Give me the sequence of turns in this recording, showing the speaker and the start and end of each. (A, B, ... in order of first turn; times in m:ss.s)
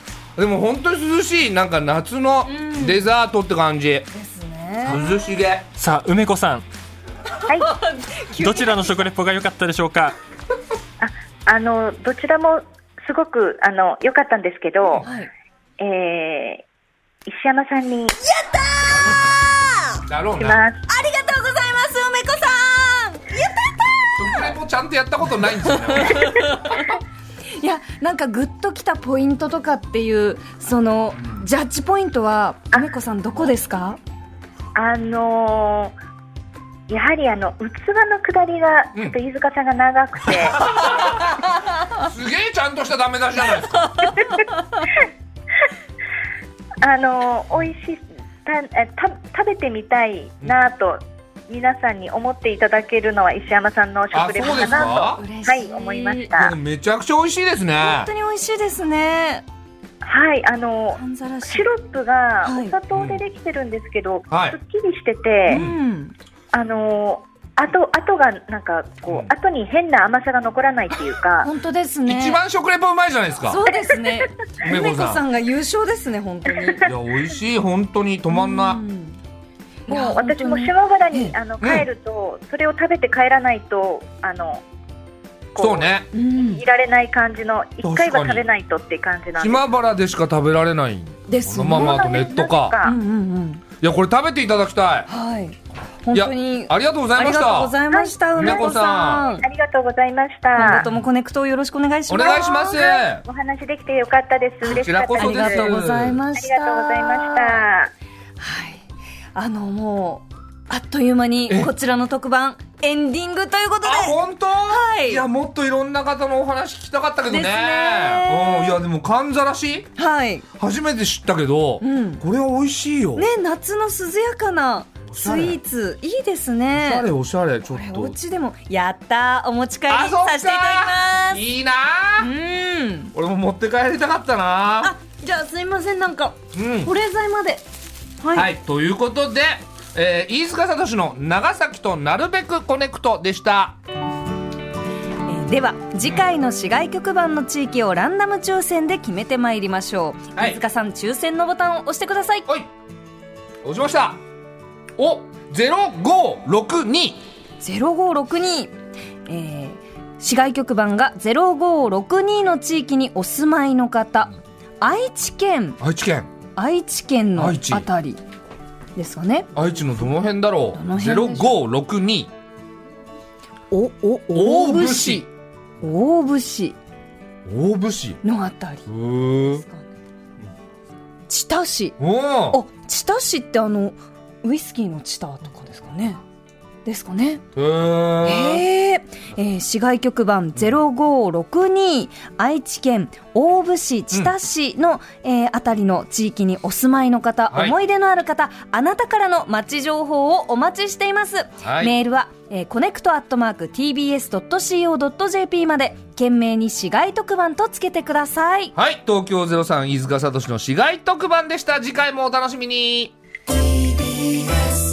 0:00.4-0:04.1 A
0:02.4-0:03.0 B
0:04.1-0:05.0 B
0:04.8-0:05.7 A
0:05.8-0:06.6 C
0:07.5-0:09.1 B
0:08.4-0:10.2 C
0:11.0-0:15.0 D
0:14.8-0:15.1 A
0:15.0-0:15.3 B
0:15.8-0:16.6 D
0:17.3-0:18.2 D
0:18.2-0:20.0 B
0:20.1-0:20.7 A
0:20.4-0:20.8 D
0:20.9-0:24.5 B
0:24.2-0:26.8 A
0:25.7-0:26.9 B
0:27.6-0:34.0 B
0:34.8-0:35.9 D
0:36.9-0:40.8 D
0:40.6-0:41.4 A
0:40.9-0:41.5 B
0:42.0-0:44.1 A
0:43.8-0:44.9 B
0:44.2-0:45.0 D
0:46.8-0:56.6 D
0:54.1-0:55.2 A
0:54.4-0:56.3 B
0:56.3-0:58.1 A
0:57.8-0:59.4 B
1:00.0-1:05.6 D
1:01.0-1:01.7 B
1:02.4-1:02.8 B
1:02.9-1:03.2 A
1:04.3-1:04.6 A
1:05.5-1:06.1 B
1:05.5-1:05.8 A
1:06.5-1:11.5 D
1:11.4-1:12.4 B
1:12.0-1:13.6 A
1:13.5-1:16.8 B
1:14.6-1:15.2 A
1:16.8-1:18.8 A
1:18.3-1:19.2 B
1:19.9-1:21.4 B
1:19.9-1:24.6 D
1:21.6-1:21.9 A
1:25.6-1:29.7 D
1:25.6-1:26.1 A
1:26.1-1:26.6 B
1:27.8-1:28.5 A
1:29.4-1:32.8 A
1:31.3-1:32.2 B
1:31.7-1:33.0 D
1:32.8-1:33.6 B
1:33.8-1:35.1 A
1:35.1-1:39.5 B
1:36.1-1:37.8 A
1:37.9-1:40.9 D
1:38.4-1:39.3 A
1:40.5-1:43.0 B
1:40.7-1:41.1 A
1:42.1-1:43.2 A
1:42.8-1:45.8 D
1:44.6-1:46.2 A
1:45.1-1:47.7 B
1:46.4-1:47.9 D
1:48.4-1:55.2 B
1:53.8-1:59.9 A
1:57.3-1:58.8 B
2:00.0-2:00.5 B
2:00.6-2:03.3 A
2:01.8-2:02.2 B
2:03.2-2:07.1 B
2:05.1-2:05.6 A
2:06.8-2:08.2 A
2:07.7-2:11.4 B
2:09.9-2:12.3 A
2:12.2-2:13.1 B
2:13.1-2:14.9 A
2:14.8-2:17.6 B
2:16.5-2:16.9 A
2:18.2-2:18.5 B
2:18.3-2:23.8 A
2:25.3-2:32.5 B
2:33.6-2:34.2 A
2:35.0-2:37.2 A
2:37.6-2:38.7 B
2:39.3-2:45.8 B
2:45.8-2:46.3 A
2:46.6-2:48.2 B
2:47.4-2:47.9 A
2:49.0-2:49.5 B
2:49.5-2:52.3 A
2:50.7-2:51.5 B
2:53.7-2:55.3 B
2:54.3-2:55.3 A
2:55.8-2:56.8 B
2:57.5-2:58.2 A
2:58.2-2:58.9 B
2:58.9-2:59.6 A
2:59.5-2:59.9 B
3:01.3-3:02.0 B
3:02.0-3:02.6 A
3:02.5-3:06.2 B
3:06.8-3:07.4 B
3:07.6-3:08.6 A
3:08.2-3:28.7 B
3:17.5-3:17.8 A
3:21.6-3:22.0 A
3:28.8-3:33.1 A
3:33.9-3:34.6 B